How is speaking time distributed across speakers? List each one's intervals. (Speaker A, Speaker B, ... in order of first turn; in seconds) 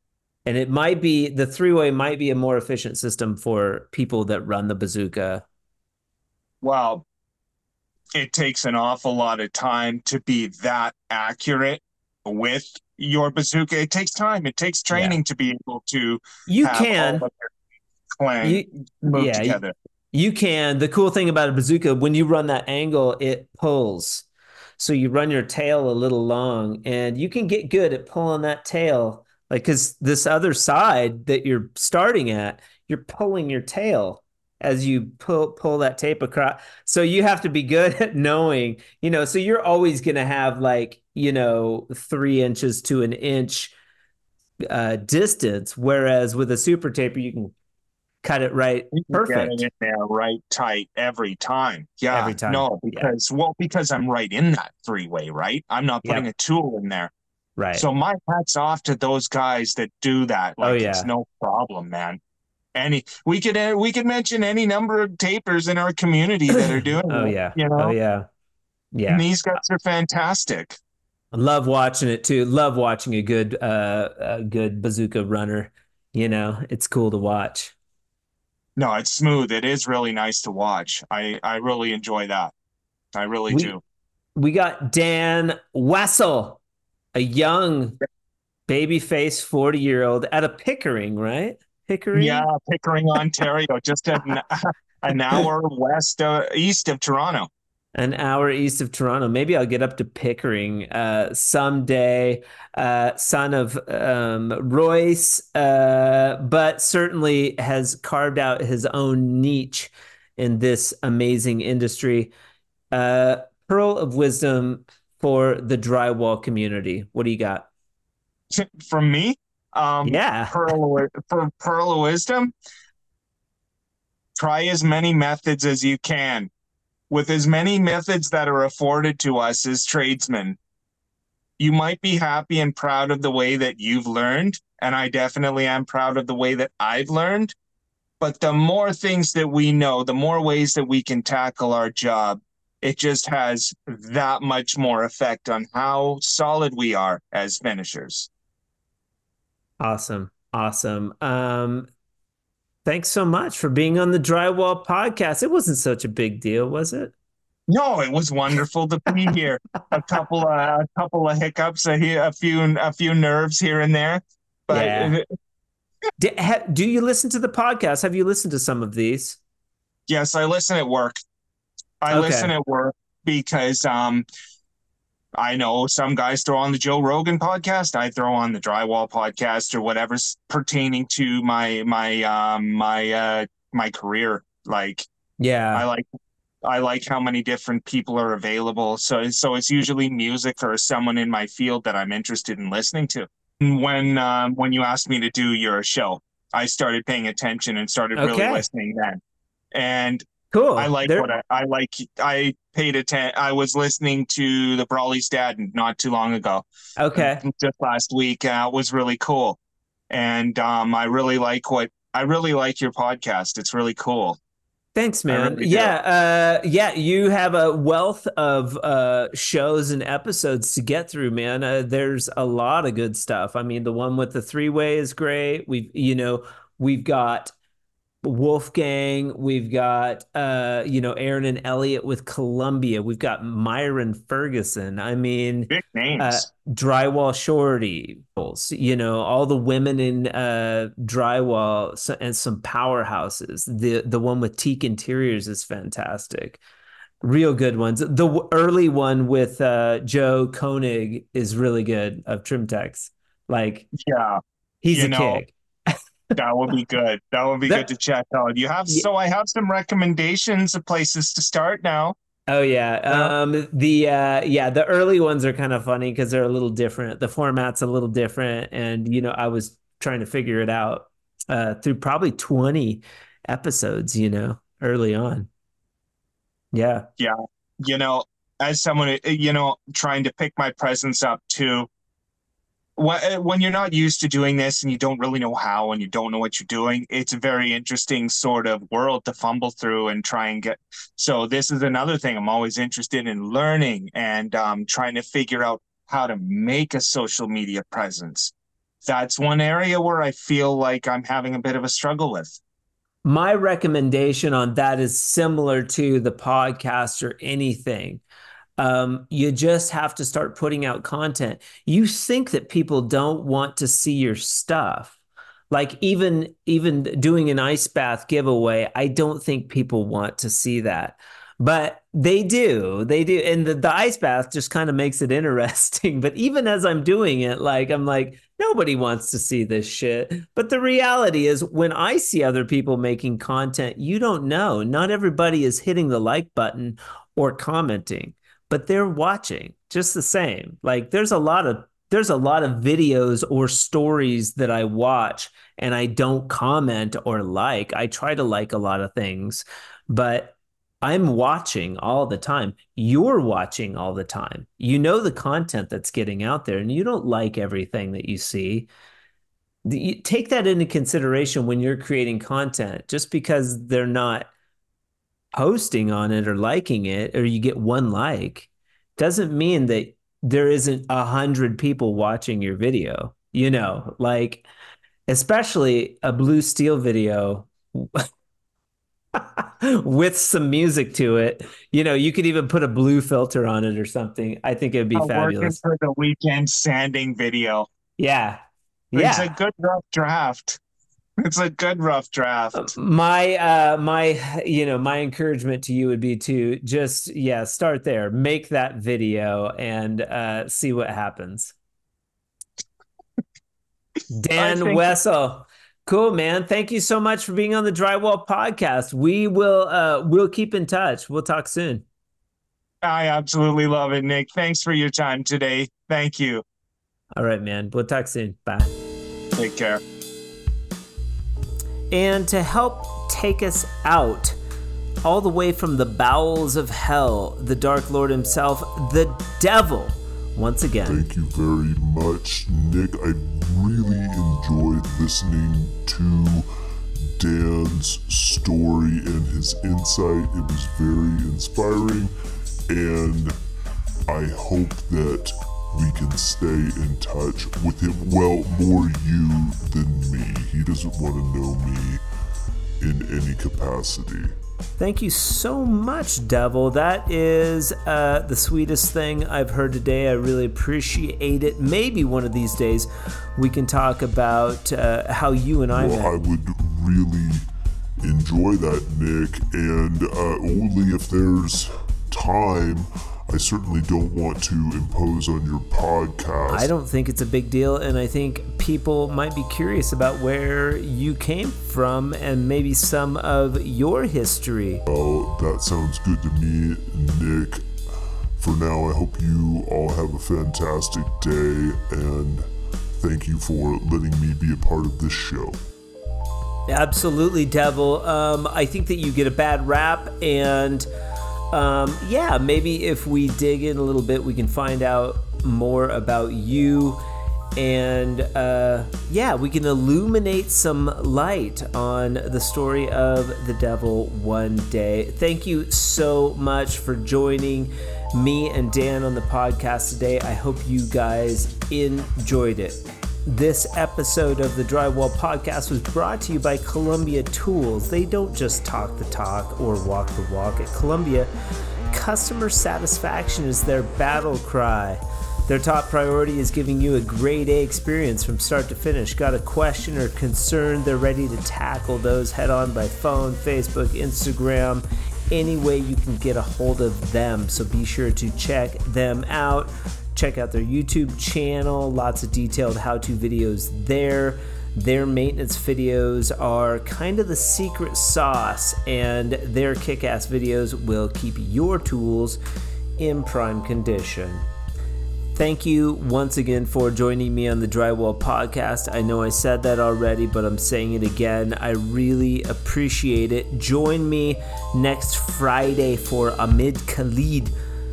Speaker A: 0.4-5.4, 14.9-15.2, 16.5-17.2, 18.4-19.6, 20.1-24.2, 24.8-43.7, 44.7-47.5, 48.2-49.6, 52.1-53.1, 57.6-57.9, 60.6-61.1, 66.5-68.3, 68.9-69.2, 71.3-77.7, 83.5-83.8, 84.4-86.6, 87.1-88.0, 88.7-92.5, 97.9-112.3, 112.9-117.7, 120.0-120.7, 149.8-151.9, 152.8-157.1, 164.7-165.2, 166.2-169.4, 172.1-172.5, 185.4-185.8, 198.2-198.6, 200.5-201.3, 207.0-207.4, 214.9-227.5, 228.2-246.6, 247.2-253.9, 254.8-255.9, 262.5-275.5, 276.7-277.1, 303.2-308.2, 308.8-315.2, 315.7-358.9, 359.8-364.5, 365.6-374.6, 375.3-378.2, 379.3-385.8, 388.2-389.5, 392.7-401.7, 404.3-412.0, 417.4-418.9, 422.1-424.6, 425.2-431.2, 455.0-466.3, 476.7-485.0, 496.9-501.1, 501.7-507.2, 507.8-531.5, 532.1-562.6, 563.2-564.6, 565.5-577.7
Speaker B: 6.6-7.0, 8.1-17.5, 18.1-19.7, 48.9-57.1, 57.7-62.2, 62.7-68.0, 69.1-70.8, 78.8-82.5, 83.1-83.8, 92.1-97.5, 118.5-122.5, 124.4-126.5, 127.1-130.6, 131.6-137.5, 138.2-148.3, 157.7-165.2, 170.1-171.2, 172.0-174.2, 175.4-185.1, 185.7-186.1, 186.6-199.2, 199.7-206.6, 207.2-209.6, 210.1-214.4, 215.3-215.9, 235.7-236.4, 253.9-254.4, 254.9-255.4, 256.3-262.1, 263.1-263.3, 277.2-281.9, 282.9-298.5, 299.0-302.6, 385.1-387.9, 389.1-390.8, 391.4-392.9, 404.6-405.1, 413.0-416.6, 419.5-420.0
Speaker C: 431.1-436.7, 437.4-442.3, 442.9-443.6, 444.3-452.2, 453.0-454.5, 465.9-467.6, 468.2-476.9, 485.1-487.9, 488.6-495.8